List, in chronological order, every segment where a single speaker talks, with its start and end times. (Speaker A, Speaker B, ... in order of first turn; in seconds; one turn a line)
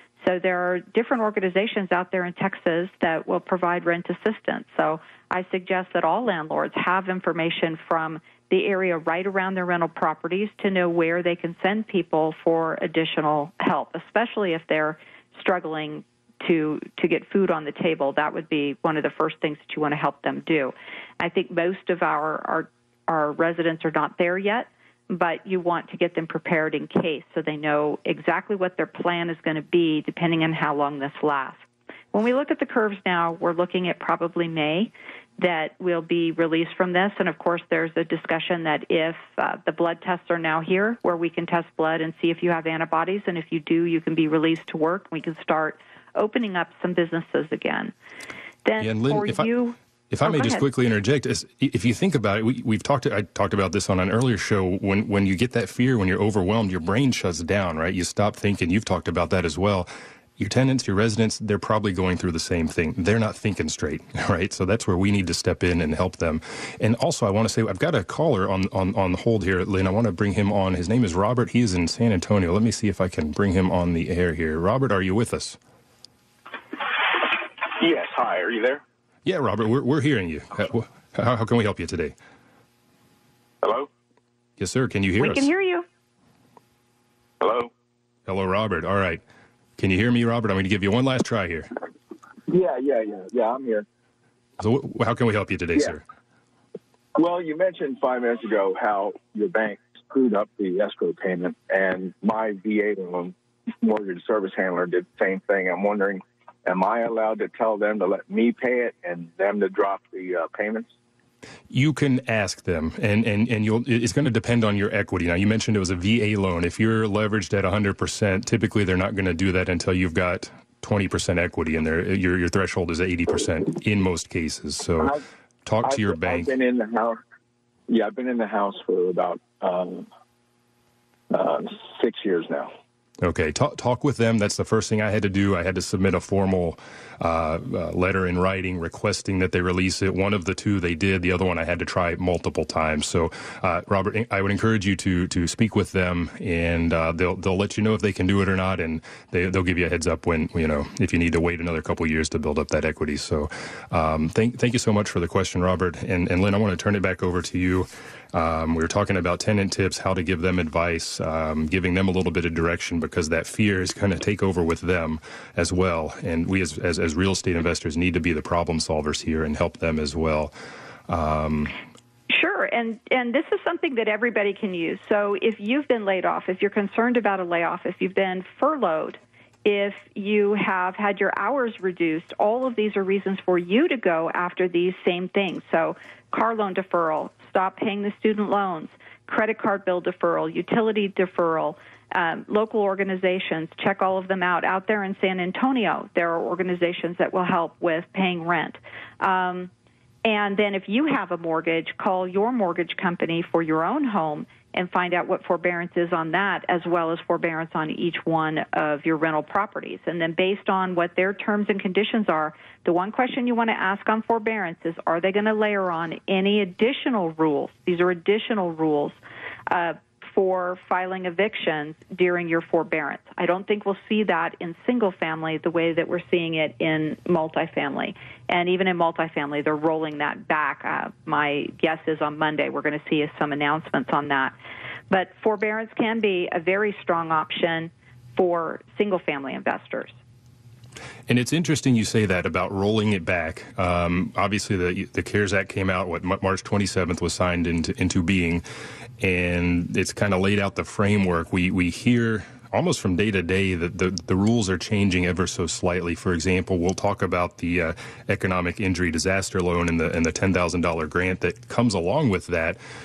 Speaker A: 0.2-47.9
Speaker A: 48.6-50.6
Speaker B: 48.8-49.5
Speaker B: 50.1-75.6
Speaker C: 77.8-78.8
Speaker B: 79.2-82.1
Speaker C: 83.6-83.9
Speaker B: 84.6-85.5
Speaker A: 85.2-85.9
Speaker C: 87.4-87.7
Speaker B: 88.2-89.2
Speaker B: 89.8-91.7
Speaker C: 92.5-93.9
Speaker B: 94.6-96.0
Speaker C: 97.2-110.9
Speaker B: 111.7-125.1
Speaker B: 125.7-126.5
Speaker C: 125.8-127.2
Speaker C: 127.9-130.1
Speaker C: 131.3-132.7
Speaker B: 133.2-170.5
Speaker B: 171.1-171.8
Speaker A: 172.3-199.7
Speaker A: 200.2-219.2
Speaker A: 219.7-234.5
Speaker A: 235.1-240.1
Speaker B: 241.3-248.6
Speaker B: 249.2-262.8